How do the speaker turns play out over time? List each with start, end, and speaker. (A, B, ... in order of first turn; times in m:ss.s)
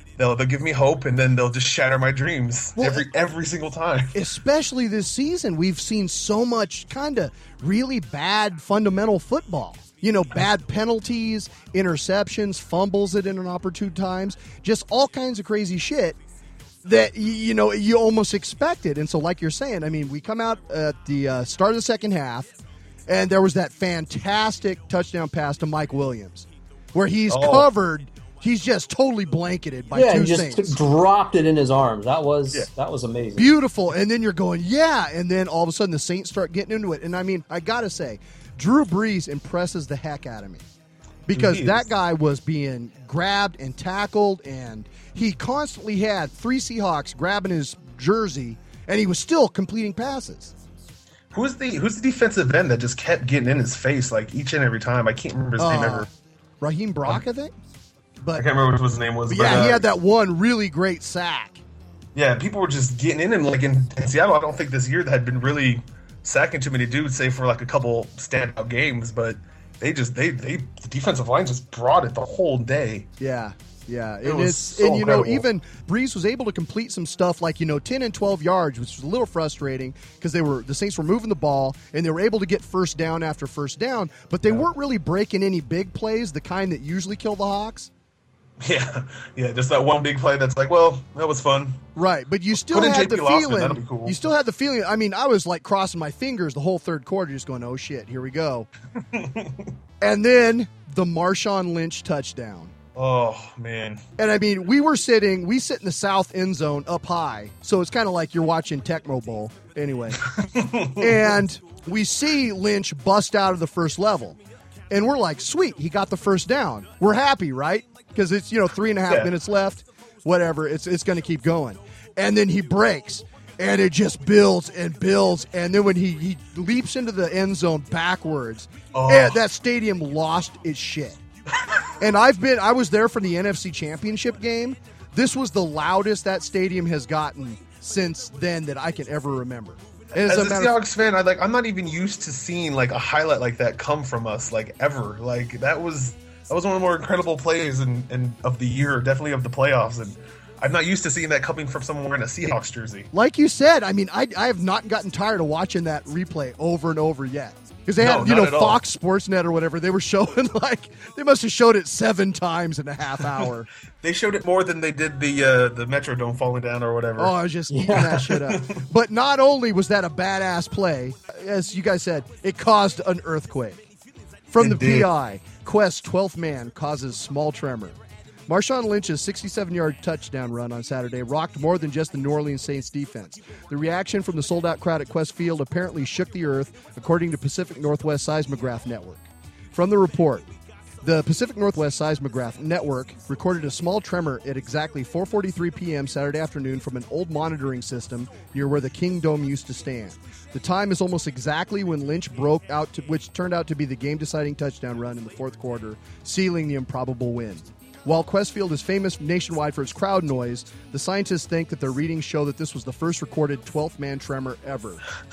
0:00.2-0:04.2 A
0:02.8-0:03.1 B
0:04.1-0:16.2 B
0:16.8-0:22.5 B
0:23.1-0:30.8 B
0:27.3-0:27.7 A
0:29.9-0:33.5 C
0:33.4-0:40.7 B
0:41.3-0:50.5 B
0:41.3-0:41.9 A
0:51.3-0:56.1 A
0:55.6-0:56.1 B
0:56.6-0:57.6 B
0:58.2-0:58.5 B
0:58.4-0:59.8 A
0:59.3-1:01.6 B
1:02.2-1:13.1 A
1:13.2-1:27.9 B
1:14.2-1:15.4 A
1:28.6-1:31.8 A
1:32.0-1:38.7 B
1:32.6-1:34.2 A
1:39.1-1:39.7 A
1:40.0-1:42.7 B
1:43.0-1:44.0 A
1:44.2-1:50.2 B
1:50.4-1:51.3 A
1:51.0-1:54.4 B
1:54.9-2:11.2 B
2:08.9-2:09.4 A
2:12.0-2:20.8 B
2:20.2-2:33.1 A
2:33.1-2:43.7 B
2:38.0-2:38.8 A
2:44.0-2:47.4 A
2:47.2-2:53.9 B
2:47.7-2:48.2 C
2:47.9-2:48.8 A
2:54.5-3:10.5 B
2:54.6-2:55.1 A
3:11.0-3:35.0 B